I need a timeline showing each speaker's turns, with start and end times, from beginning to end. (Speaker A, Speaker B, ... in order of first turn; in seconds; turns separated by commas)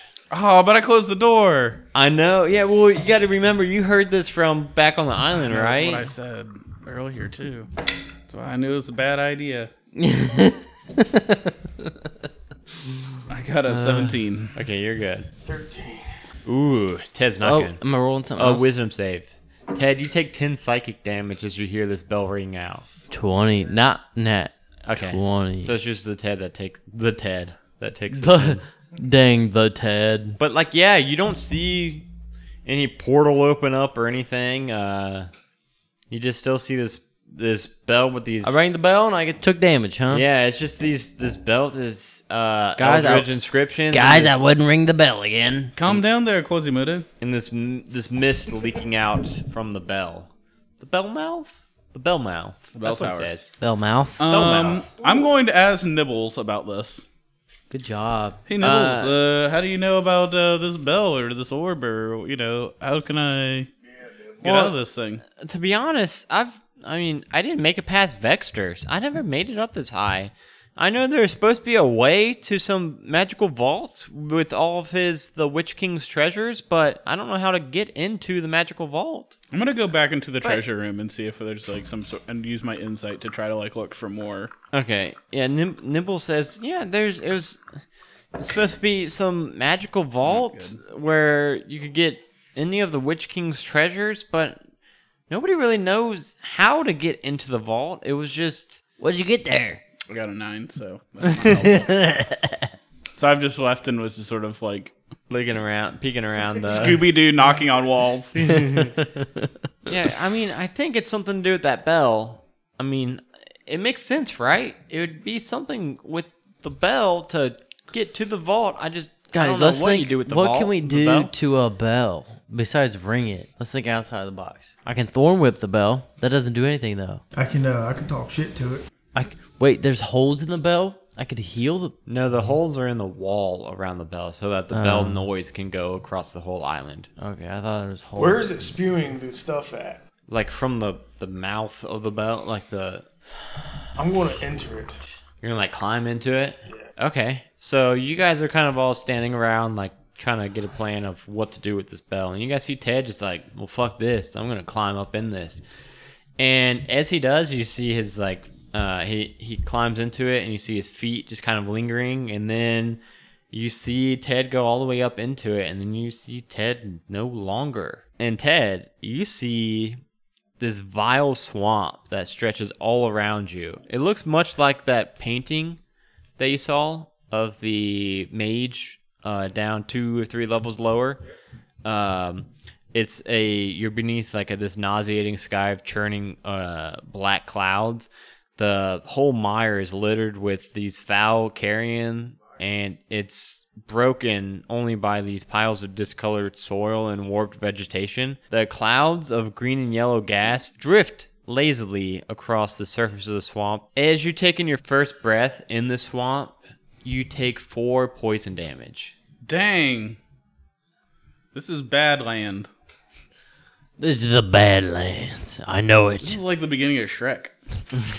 Speaker A: 0.3-1.8, Speaker B: 1.9-6.1, Speaker A: 5.4-7.7, Speaker A: 8.3-9.7, Speaker C: 10.0-12.1, Speaker A: 13.3-14.6, Speaker B: 14.6-15.3, Speaker D: 15.4-16.1, Speaker B: 16.5-17.8, Speaker C: 17.4-18.7, Speaker B: 18.4-22.9, Speaker C: 23.1-25.7, Speaker B: 24.9-28.6, Speaker C: 28.1-30.4, Speaker B: 30.4-32.1, Speaker B: 32.6-35.3, Speaker B: 36.1-38.7, Speaker C: 38.4-40.2, Speaker B: 40.1-44.4, Speaker C: 42.8-43.3, Speaker C: 43.9-45.7, Speaker A: 45.8-47.1, Speaker B: 47.2-53.5, Speaker A: 52.7-53.3, Speaker C: 53.6-54.6, Speaker A: 54.2-57.1, Speaker B: 54.3-54.9, Speaker C: 57.7-58.4, Speaker A: 58.5-63.7, Speaker B: 58.6-59.1, Speaker A: 64.4-65.2, Speaker B: 64.4-64.7, Speaker B: 65.4-79.4, Speaker A: 79.5-84.5, Speaker B: 84.7-87.6, Speaker B: 88.4-94.6, Speaker A: 90.2-90.8, Speaker B: 95.3-98.8, Speaker C: 99.0-99.8, Speaker A: 100.1-101.9, Speaker C: 101.4-102.7, Speaker A: 103.2-104.9, Speaker B: 105.3-107.1, Speaker A: 106.6-108.6, Speaker B: 108.4-109.0, Speaker C: 108.8-109.5, Speaker B: 109.9-121.3, Speaker C: 119.3-127.2, Speaker D: 127.3-128.8, Speaker C: 129.2-132.0, Speaker B: 132.1-137.1, Speaker C: 134.7-135.3, Speaker C: 137.2-138.6, Speaker D: 138.2-140.0, Speaker B: 140.3-143.1, Speaker D: 144.0-145.0, Speaker B: 145.4-155.6, Speaker B: 156.4-170.0, Speaker B: 170.6-175.8, Speaker B: 176.4-181.2, Speaker B: 181.8-209.1, Speaker A: 209.4-210.2, Speaker A: 211.5-212.7, Speaker C: 214.0-216.4, Speaker A: 216.2-217.5